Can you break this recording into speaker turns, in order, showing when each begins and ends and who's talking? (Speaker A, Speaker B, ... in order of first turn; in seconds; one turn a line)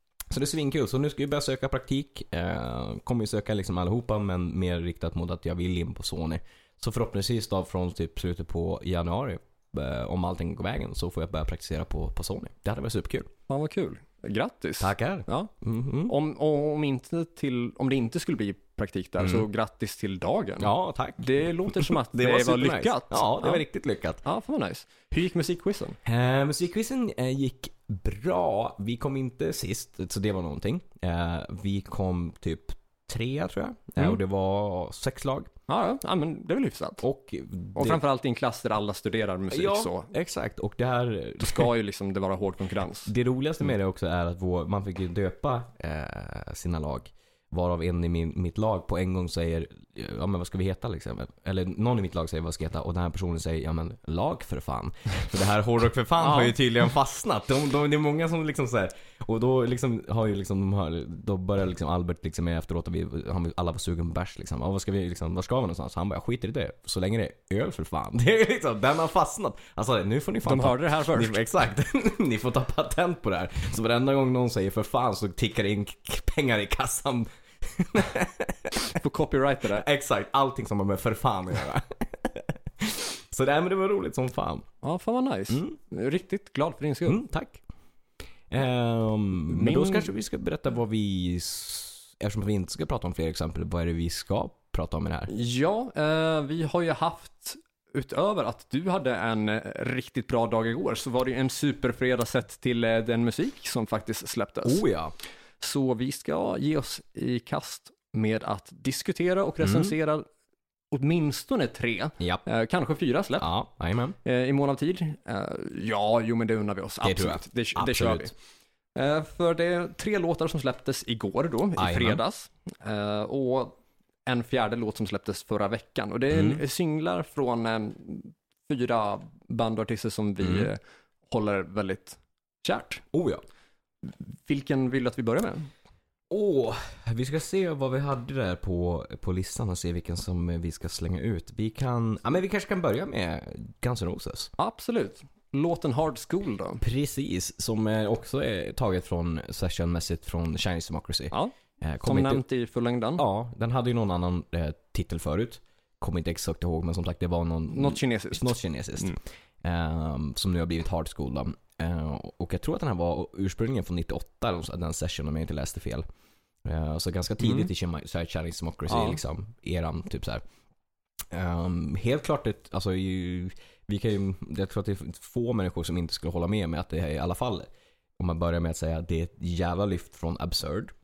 Speaker A: 0.3-13.3
Speaker B: 13.5-15.5
Speaker A: 14.8-16.1
Speaker B: 16.1-23.6
Speaker A: 19.2-19.5
Speaker A: 20.6-24.2
Speaker B: 24.2-26.0
Speaker A: 26.0-35.5
Speaker B: 35.7-37.0
Speaker A: 37.0-38.0
Speaker B: 37.8-40.1
Speaker A: 39.5-41.7
Speaker B: 41.4-43.1
Speaker A: 43.1-78.8
Speaker B: 56.2-56.5
Speaker B: 70.4-71.4
Speaker B: 78.8-79.9
Speaker A: 79.8-84.7
Speaker B: 84.8-87.2
Speaker A: 85.5-85.8
Speaker A: 87.1-87.6
Speaker A: 88.5-95.3
Speaker B: 89.5-90.1
Speaker B: 95.3-104.8
Speaker A: 104.7-105.1
Speaker B: 105.6-110.3
Speaker A: 109.6-109.9
Speaker B: 110.9-113.5
Speaker A: 113.4-114.2
Speaker B: 114.2-118.3
Speaker A: 117.0-118.3
Speaker B: 119.0-133.1
Speaker A: 121.8-122.2
Speaker A: 126.3-126.6
Speaker A: 130.4-130.7
Speaker A: 133.1-133.4
Speaker B: 134.0-135.7
Speaker A: 136.3-144.5
Speaker B: 144.6-146.8
Speaker A: 146.8-152.4
Speaker B: 151.3-153.2
Speaker A: 153.2-166.1
Speaker B: 157.7-159.2
Speaker A: 166.7-170.4
Speaker B: 167.4-167.7
Speaker B: 168.9-169.2
Speaker A: 171.3-177.7
Speaker A: 178.2-180.9